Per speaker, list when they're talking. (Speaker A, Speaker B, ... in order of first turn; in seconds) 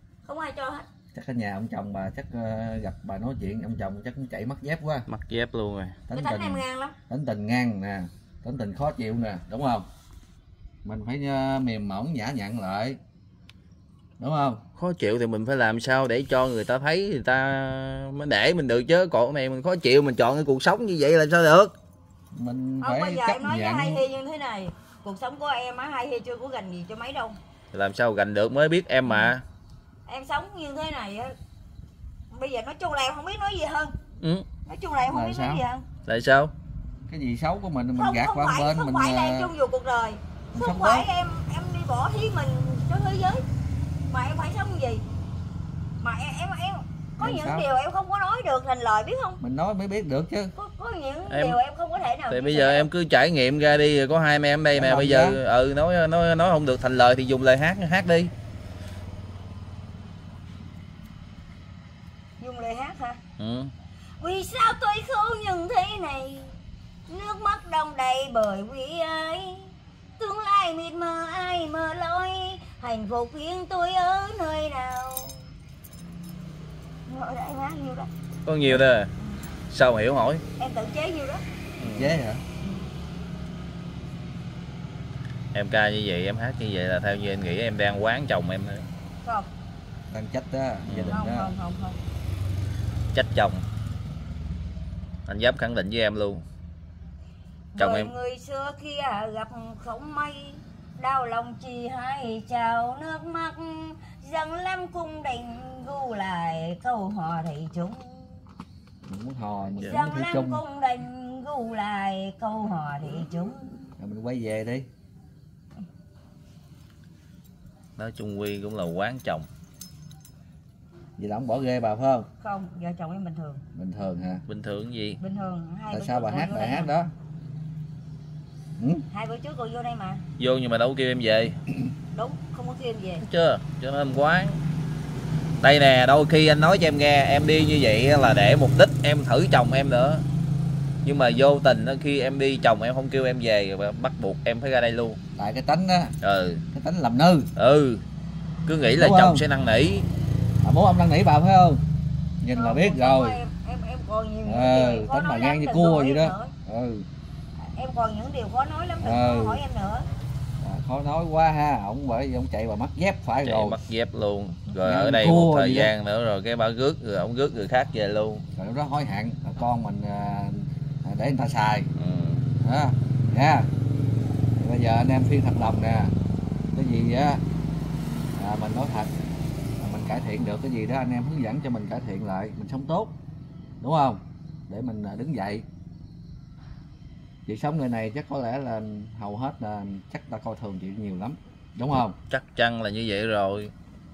Speaker A: 0.2-0.8, 6.1-7.0, 22.8-27.4, 29.1-29.3, 30.1-31.3, 32.3-33.9, 34.6-35.8, 37.9-43.4, 44.0-45.0, 46.0-49.4, 50.5-52.9, 62.4-63.2, 64.2-75.5, 77.1-78.1, 80.6-81.4, 89.2-89.5, 91.1-92.0, 97.7-108.4, 109.8-113.8, 122.4-123.6, 125.2-126.9, 129.1-130.2, 132.1-133.2, 152.5-156.5, 157.6-160.1
Speaker B: 1.1-5.1, 6.1-9.9, 10.8-13.0, 14.2-14.6, 22.3-24.0, 35.1-35.6, 37.1-39.5, 40.5-41.1, 47.2-47.7, 49.4-50.5, 54.7-55.4, 81.8-82.4, 90.1-91.5, 109.0-110.6, 114.0-114.9, 121.2-122.3, 123.7-124.4, 125.9-127.1, 128.8-129.0, 145.3-146.1, 146.7-147.5, 148.9-149.4, 150.6-151.8, 152.4-153.4, 154.4-157.1, 159.0-159.6, 160.6-163.8, 164.8-165.9, 168.5-171.9, 172.6-173.7, 174.6-176.1, 176.7-177.4, 178.3-179.1, 179.8-183.2, 183.8-185.6, 187.4-192.2
Speaker C: 5.1-6.0, 14.8-21.7, 27.7-29.4, 34.2-34.5, 36.1-36.5, 51.3-51.6, 52.3-58.3, 63.4-63.7, 78.5-79.1, 79.7-80.4, 81.8-82.2, 85.5-88.9, 90.9-91.2, 93.1-93.6, 95.3-96.4, 97.8-98.1, 118.0-119.5, 124.5-125.2, 130.4-131.6, 133.2-134.6, 135.6-140.2, 141.0-145.2, 146.2-146.6, 147.6-148.0, 148.7-150.1, 163.4-168.4, 171.9-172.4, 192.3-193.7